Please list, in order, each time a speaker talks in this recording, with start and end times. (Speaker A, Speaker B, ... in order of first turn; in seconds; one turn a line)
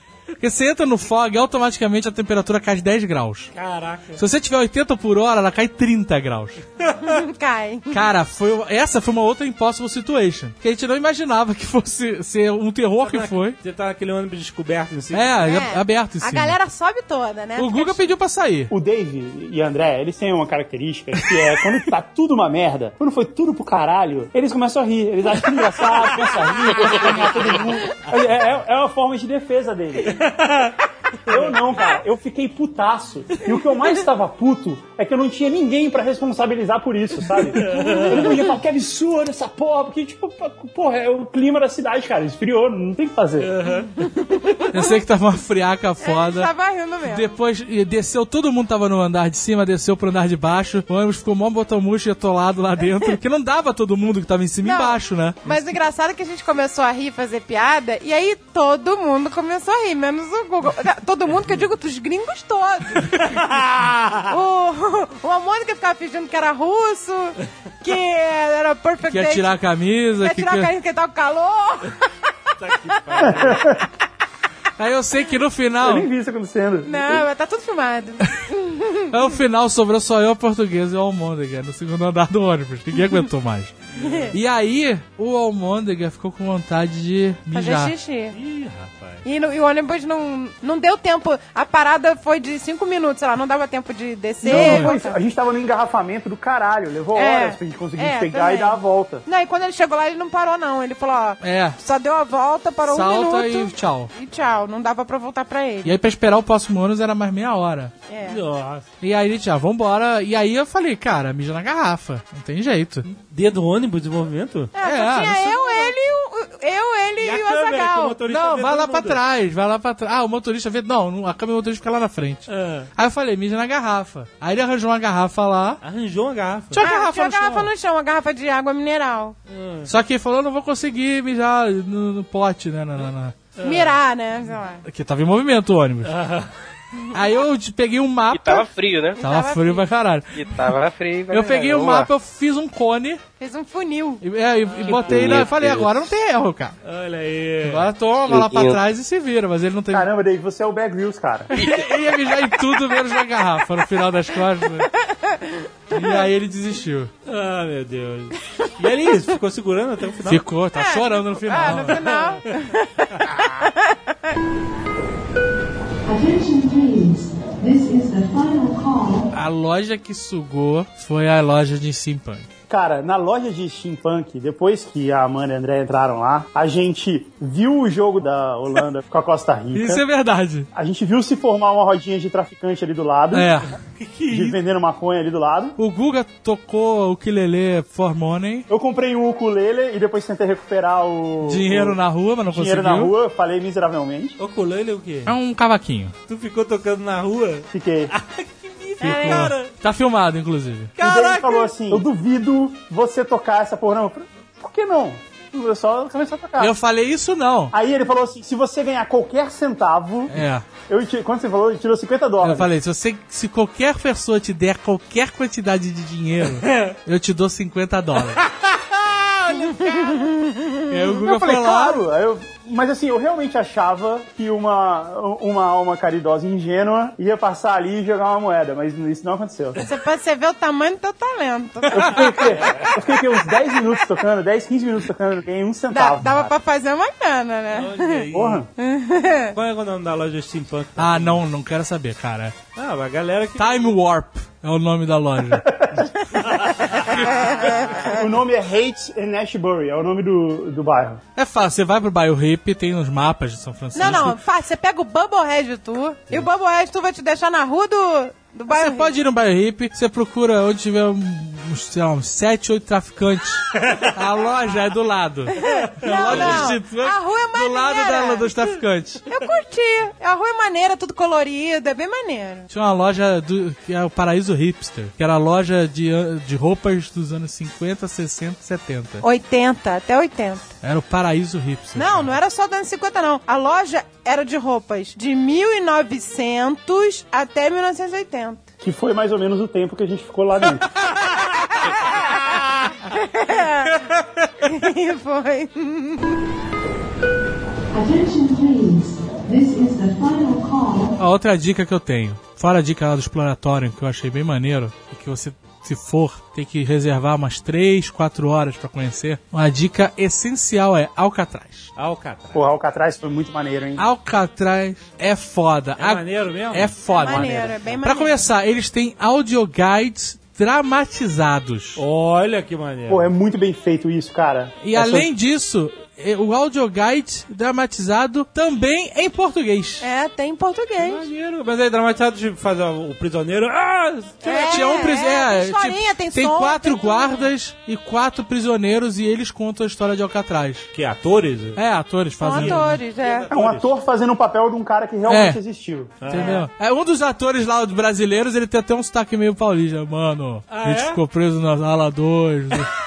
Speaker A: 0.4-3.5
Speaker B: 3.5-4.2
Speaker A: 4.2-6.6
Speaker B: 6.8-7.1
Speaker C: 7.0-8.0
Speaker A: 7.9-13.6
Speaker B: 13.0-15.3
Speaker A: 15.1-16.6
Speaker C: 15.4-18.0
Speaker A: 17.6-18.7
Speaker D: 18.7-30.2
Speaker B: 25.9-27.5
Speaker B: 30.1-30.8
Speaker D: 31.3-43.5
Speaker B: 31.3-31.6
Speaker B: 37.5-38.4
Speaker C: 37.8-38.2
Speaker B: 43.4-43.9
Speaker C: 44.0-45.0
Speaker A: 44.7-46.5
Speaker C: 46.0-47.2
Speaker A: 47.0-55.8
Speaker C: 54.6-63.6
Speaker B: 63.1-64.2
Speaker C: 64.2-69.6
Speaker A: 69.1-70.7
Speaker C: 70.2-72.1
Speaker B: 72.6-73.8
Speaker D: 73.2-73.8
Speaker A: 74.8-76.1
Speaker D: 75.8-77.3
Speaker C: 76.8-79.1
Speaker A: 79.1-83.7
Speaker B: 83.9-84.3
Speaker C: 84.0-84.3
Speaker A: 84.3-87.9
Speaker C: 87.5-88.4
Speaker B: 88.3-89.2
Speaker C: 89.2-95.2
Speaker A: 94.4-94.9
Speaker D: 94.4-99.2
Speaker C: 97.1-106.0
Speaker A: 101.4-101.8
Speaker A: 102.8-104.1
Speaker A: 105.8-107.9
Speaker C: 108.1-108.4
Speaker B: 108.2-108.8
Speaker A: 109.0-113.1
Speaker B: 113.1-114.7
Speaker C: 114.7-118.2
Speaker A: 114.8-115.8
Speaker B: 117.2-119.2
Speaker A: 118.3-125.8
Speaker B: 122.5-122.9
Speaker B: 125.8-126.8
Speaker A: 126.7-127.7
Speaker C: 126.8-129.4
Speaker B: 129.5-129.9
Speaker A: 129.8-133.4
Speaker B: 133.6-133.9
Speaker C: 133.6-134.8
Speaker A: 134.8-136.1
Speaker B: 136.1-136.5
Speaker A: 137.1-140.4
Speaker E: 138.3-139.2
Speaker C: 139.2-139.9
Speaker E: 140.3-142.1
Speaker A: 141.3-143.2
Speaker C: 143.4-144.2
Speaker A: 144.2-146.7
Speaker B: 144.7-145.4
Speaker E: 144.8-146.1
Speaker B: 146.8-147.9
Speaker A: 147.6-150.1
Speaker E: 148.2-148.8
Speaker D: 149.9-151.5
Speaker A: 151.5-154.9
Speaker C: 155.1-156.2
Speaker A: 155.9-157.1
Speaker B: 157.2-160.4
Speaker A: 160.2-162.0
Speaker C: 160.7-164.0
Speaker B: 161.6-162.5
Speaker F: 166.0-169.3
Speaker A: 169.3-172.5
Speaker D: 172.7-180.0
Speaker A: 179.7-180.7
Speaker D: 180.7-183.5
Speaker A: 183.3-183.7
Speaker B: 183.9-184.6
Speaker D: 184.3-185.8
Speaker A: 185.8-188.7
Speaker D: 188.7-194.4
Speaker A: 191.4-193.1
Speaker B: 194.4-195.3
Speaker A: 195.2-196.1
Speaker B: 196.3-199.7
Speaker D: 197.7-198.1
Speaker C: 199.0-199.5
Speaker A: 199.0-200.9
Speaker B: 201.0-202.0
Speaker D: 201.0-206.7
Speaker A: 206.6-207.7
Speaker D: 207.7-212.7
Speaker A: 210.3-210.7
Speaker A: 212.4-218.4
Speaker B: 216.6-216.9
Speaker B: 218.4-220.3
Speaker C: 219.5-221.2
Speaker A: 220.9-222.0
Speaker D: 221.1-229.8
Speaker C: 229.8-232.7
Speaker D: 231.9-236.5
Speaker B: 232.6-232.9
Speaker C: 235.9-239.5
Speaker B: 236.2-236.5
Speaker B: 237.7-238.6
Speaker D: 238.3-238.7
Speaker B: 239.5-241.4
Speaker A: 241.0-242.5
Speaker B: 242.8-243.8
Speaker A: 243.6-245.7
Speaker D: 245.5-246.1
Speaker C: 246.3-248.2
Speaker B: 246.4-248.1
Speaker D: 248.0-251.2
Speaker A: 251.3-254.4
Speaker C: 253.9-259.1
Speaker A: 258.7-269.2
Speaker B: 263.8-264.1
Speaker C: 265.5-268.7
Speaker B: 265.6-266.8
Speaker C: 269.3-272.7
Speaker A: 272.7-279.2
Speaker C: 279.2-280.7
Speaker A: 280.8-282.3
Speaker C: 281.9-288.6
Speaker D: 288.8-291.0
Speaker C: 291.4-292.4
Speaker C: 293.1-296.3
Speaker F: 297.9-301.1
Speaker A: 301.2-311.9
Speaker B: 311.9-312.6
Speaker D: 312.5-314.0
Speaker A: 314.0-322.0
Speaker B: 316.0-318.0
Speaker C: 317.1-318.4
Speaker B: 322.0-323.3
Speaker D: 323.1-325.3
Speaker A: 324.8-330.0
Speaker C: 330.0-331.2
Speaker B: 331.0-335.0
Speaker C: 334.4-337.5
Speaker A: 334.4-340.9
Speaker B: 340.9-341.8
Speaker A: 341.8-343.0
Speaker C: 342.4-343.5
Speaker B: 342.5-343.9
Speaker D: 343.5-346.2
Speaker A: 345.3-345.6
Speaker B: 346.2-346.6
Speaker A: 346.3-352.9
Speaker B: 350.7-351.2